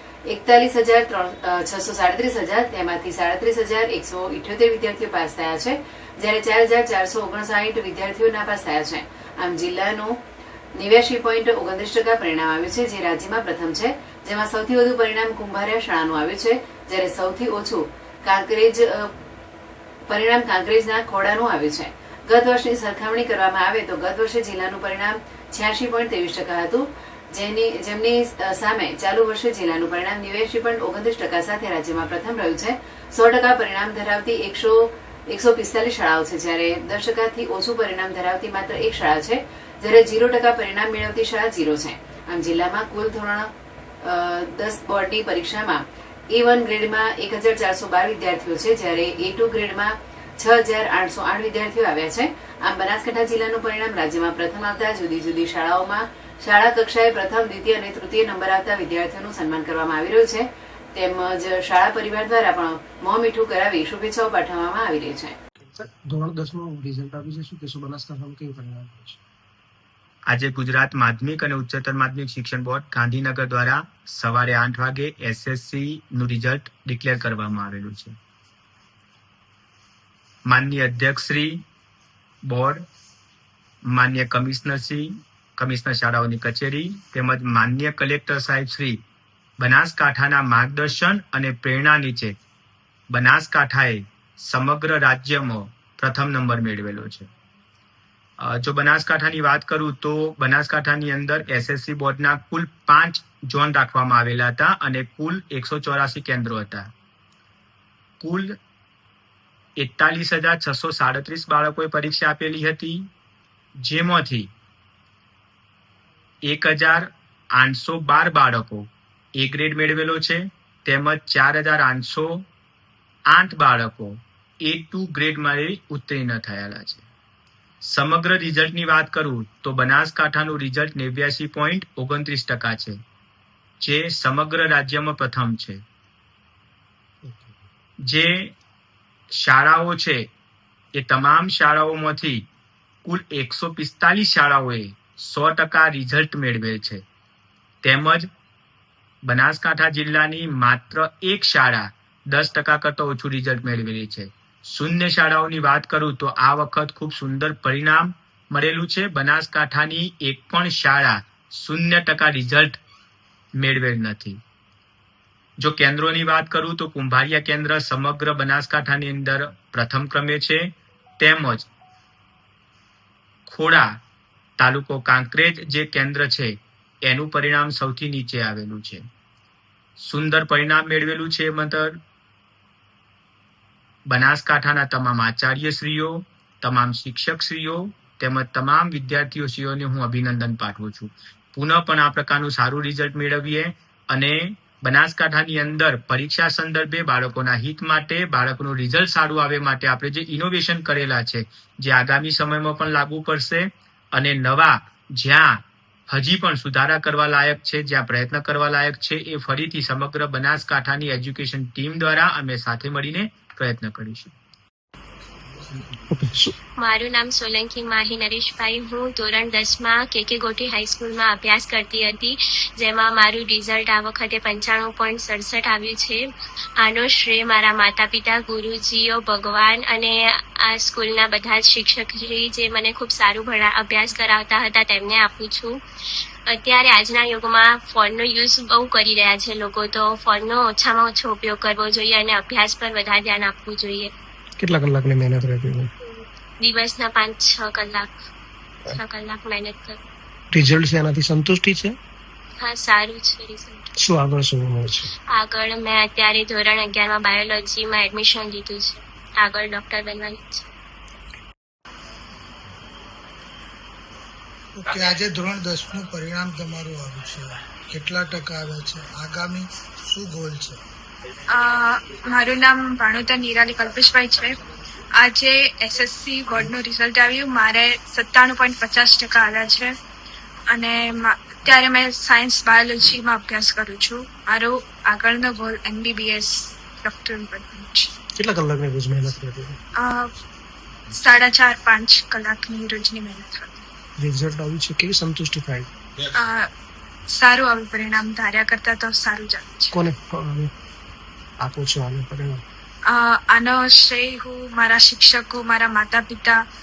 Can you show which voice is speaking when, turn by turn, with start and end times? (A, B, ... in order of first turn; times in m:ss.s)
0:00.3-0:10.2 A
0:10.8-0:19.1 A
0:20.1-0:43.5 A
0:44.0-1:05.4 A
1:05.6-1:09.2 B
1:10.3-1:18.2 C
1:20.5-1:21.6 C
1:22.4-1:22.8 C
1:23.9-1:29.0 C
1:29.6-1:32.4 C
1:33.1-1:37.3 C
1:38.4-1:46.9 C
1:48.2-1:48.6 C
1:49.8-1:53.1 C
1:53.8-1:54.5 C
1:56.4-2:02.4 C
2:03.3-2:07.0 C
2:07.8-2:13.0 C
2:13.8-2:15.8 C
2:17.2-2:17.5 B
2:18.1-2:18.5 C
2:19.3-2:20.3 C
2:21.0-2:22.4 C
2:23.0-2:27.0 C
2:27.8-2:28.3 C
2:29.2-2:42.8 C
2:43.6-2:44.4 C
2:45.6-2:51.7 C
2:53.4-2:53.9 C
2:54.6-2:59.0 C
3:00.0-3:02.0 C
3:04.1-3:34.3 C
3:36.1-3:36.5 B
3:36.8-3:46.2 D
3:46.8-3:55.8 D
3:56.5-4:04.1 D
4:04.6-4:05.9 B
4:06.0-4:08.1 D
4:08.9-4:10.0 D
4:10.5-4:12.0 B
4:12.6-4:13.8 D
4:14.0-4:15.1 B
4:15.3-4:20.7 D
4:24.7-4:30.8 E
4:31.5-4:34.6 F
4:35.2-4:40.0 F
4:40.7-4:48.1 F
4:48.3-4:49.8 B
4:49.9-4:50.3 F
4:51.1-4:53.8 F
4:54.2-4:55.9 B
4:56.3-4:56.7 F
4:57.3-5:00.0 F
4:59.9-5:00.7 B
5:01.6-5:02.6 B
5:03.1-5:06.6 F